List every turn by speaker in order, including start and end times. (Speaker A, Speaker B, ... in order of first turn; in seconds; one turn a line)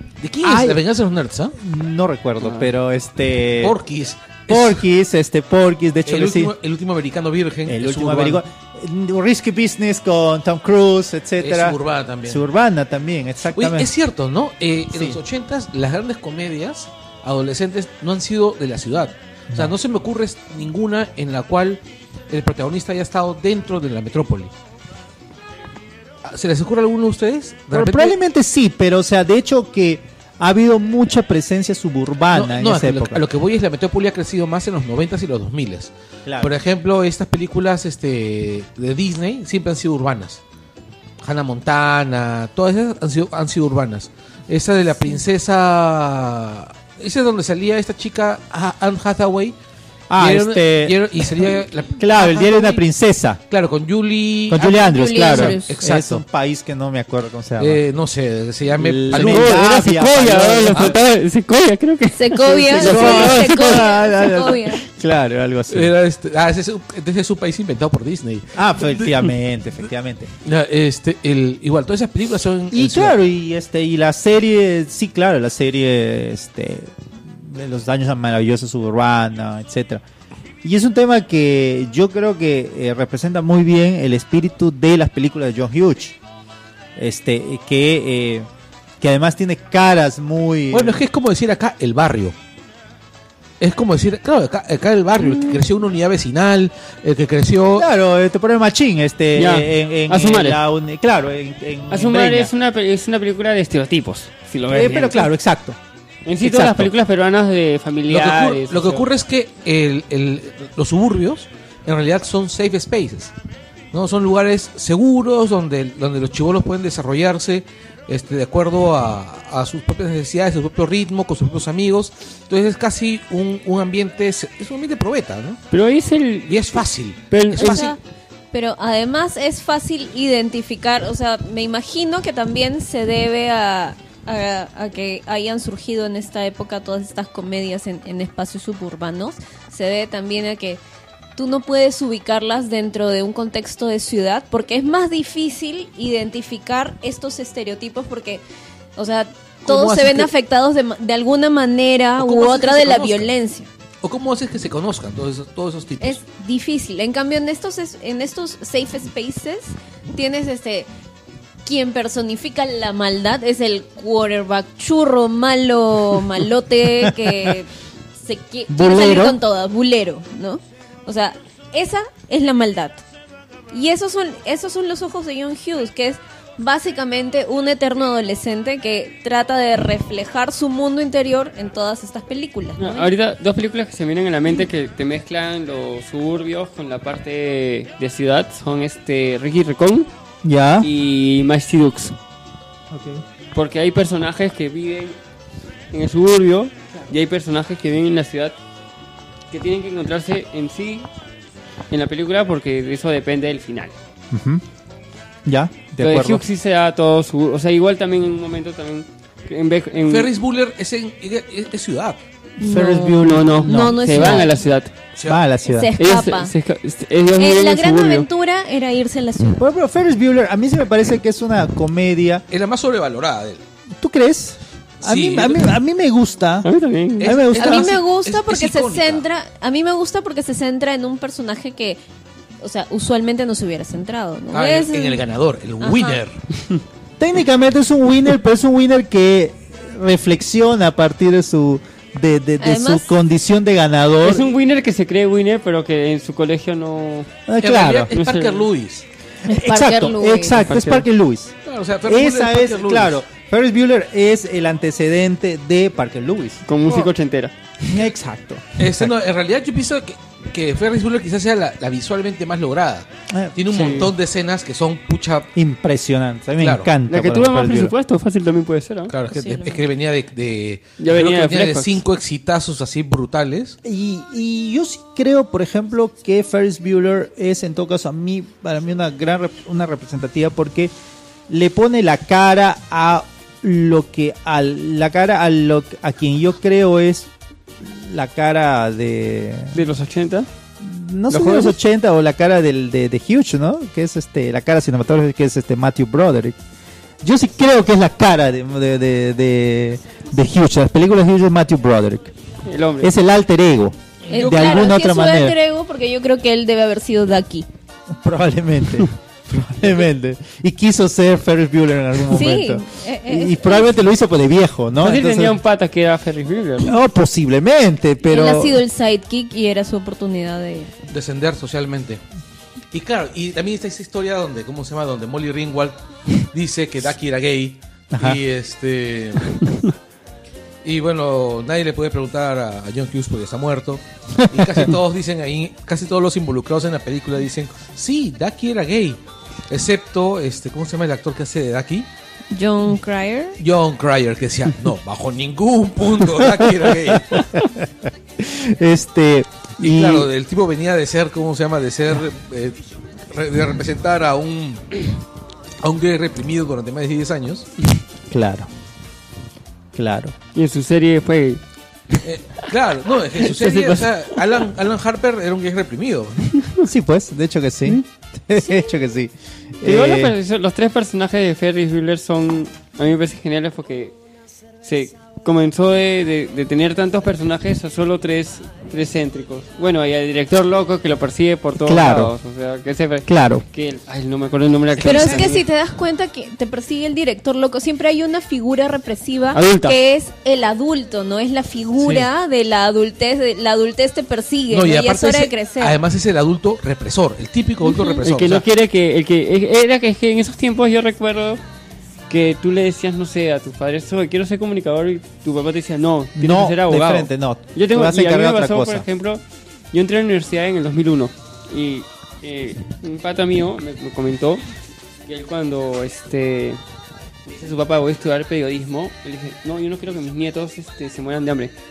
Speaker A: 0.2-1.6
Speaker B: 0.4-0.8
Speaker B: 1.6-3.8
Speaker C: 2.4-2.7
Speaker A: 3.6-4.8
Speaker B: 4.5-6.5
Speaker A: 6.0-8.4
Speaker B: 7.7-13.9
Speaker A: 11.4-12.4
Speaker A: 13.6-24.5
Speaker B: 14.9-15.2
Speaker A: 26.2-28.1
Speaker B: 27.7-33.2
Speaker A: 32.3-40.4
Speaker B: 36.2-36.5
Speaker A: 41.2-49.5
Speaker B: 50.1-53.4
Speaker A: 50.2-52.8
Speaker A: 53.5-56.2
Speaker B: 54.5-57.8
Speaker D: 54.9-55.7
Speaker A: 57.6-59.6
Speaker B: 58.8-61.0
Speaker C: 59.1-63.9
Speaker D: 62.1-64.8
Speaker B: 62.8-65.9
Speaker A: 62.8-63.4
Speaker A: 65.7-69.3
Speaker B: 68.5-70.3
Speaker A: 70.4-73.2
Speaker B: 72.7-80.0
Speaker B: 80.6-86.2
Speaker B: 87.0-88.5
Speaker B: 89.0-91.0
Speaker A: 90.7-92.3
Speaker A: 93.6-97.9
Speaker B: 97.8-102.5
Speaker C: 99.3-100.6
Speaker C: 101.9-105.3
Speaker B: 104.7-105.8
Speaker C: 106.2-109.1
Speaker B: 106.4-106.9
Speaker A: 108.1-113.3
Speaker A: 113.9-125.6
Speaker C: 125.7-126.8
Speaker A: 126.5-127.9
Speaker C: 127.3-127.9
Speaker D: 127.5-128.0
Speaker D: 128.5-140.8
Speaker D: 141.3-148.4
Speaker D: 148.9-153.7
Speaker A: 149.6-150.3
Speaker A: 152.2-153.3
Speaker A: 154.0-156.2
Speaker D: 156.0-160.9
Speaker D: 161.6-173.0
Speaker B: 168.7-169.4
Speaker D: 173.7-183.1
Speaker C: 182.8-190.1
Speaker B: 190.4-190.9
Speaker C: 190.8-192.2
Speaker B: 192.9-193.2
Speaker C: 193.5-195.2
Speaker C: 195.9-198.6
Speaker C: 199.5-201.1
Speaker C: 201.9-203.9
Speaker B: 204.3-204.6
Speaker B: 205.4-206.4
Speaker C: 206.0-210.3
Speaker A: 210.0-212.2
Speaker D: 212.6-214.5
Speaker B: 212.6-214.5
Speaker C: 213.2-214.9
Speaker A: 215.1-215.4
Speaker B: 215.2-215.9
Speaker D: 215.7-216.5
Speaker C: 216.0-218.3
Speaker D: 217.3-219.6
Speaker B: 219.6-222.4
Speaker A: 222.5-223.6
Speaker B: 224.0-226.7
Speaker A: 225.0-225.8
Speaker C: 226.6-227.4
Speaker A: 227.2-229.2
Speaker B: 227.2-228.0
Speaker D: 227.6-232.0
Speaker D: 232.6-235.2
Speaker A: 234.5-236.4
Speaker D: 235.8-236.2
Speaker B: 237.2-244.5
Speaker D: 242.6-243.1
Speaker C: 244.2-247.3
Speaker B: 247.5-248.1
Speaker A: 247.6-249.0
Speaker C: 248.1-248.7
Speaker D: 249.5-250.6
Speaker B: 249.5-251.5
Speaker C: 250.6-251.0
Speaker A: 251.7-253.2
Speaker B: 252.0-256.6
Speaker C: 256.6-257.5
Speaker B: 257.9-259.1
Speaker A: 258.8-265.5
Speaker B: 263.3-263.6
Speaker C: 263.7-264.1
Speaker B: 265.5-267.9
Speaker A: 266.6-266.9
Speaker C: 267.1-269.1
Speaker A: 269.1-273.8
Speaker D: 269.3-269.8
Speaker C: 271.0-272.0
Speaker B: 273.8-280.9
Speaker B: 281.5-287.3
Speaker B: 287.8-289.8
Speaker C: 289.7-290.5
Speaker B: 290.8-296.6
Speaker C: 291.3-291.7
Speaker B: 297.2-302.3
Speaker C: 302.6-303.1
Speaker B: 303.0-305.5
Speaker A: 304.2-304.9
Speaker D: 304.3-307.6
Speaker B: 308.1-315.6
Speaker D: 312.3-313.9
Speaker C: 315.0-316.9
Speaker B: 316.8-318.8
Speaker D: 318.2-320.9
Speaker A: 321.1-322.2
Speaker A: 322.9-329.6
Speaker B: 328.1-328.4
Speaker A: 330.8-342.1
Speaker B: 334.4-334.9
Speaker D: 342.5-343.6
Speaker A: 343.6-347.4
Speaker B: 347.1-350.3
Speaker A: 349.8-352.8
Speaker A: 353.3-355.1
Speaker A: 355.8-357.7
Speaker B: 358.3-358.7
Speaker B: 359.9-360.3
Speaker C: 360.5-361.6
Speaker A: 362.2-366.5
Speaker C: 363.4-364.3
Speaker C: 366.5-366.9
Speaker B: 366.8-370.3
Speaker C: 369.8-374.1
Speaker C: 374.8-385.6
Speaker B: 381.8-382.3
Speaker B: 383.2-383.6
Speaker A: 384.9-385.5
Speaker D: 385.0-396.0
Speaker C: 389.5-390.0
Speaker A: 392.0-392.3
Speaker A: 394.7-398.6
Speaker D: 397.8-398.2
Speaker C: 398.2-401.6
Speaker C: 402.3-414.6
Speaker B: 406.4-409.1
Speaker C: 415.2-416.8
Speaker C: 417.5-421.7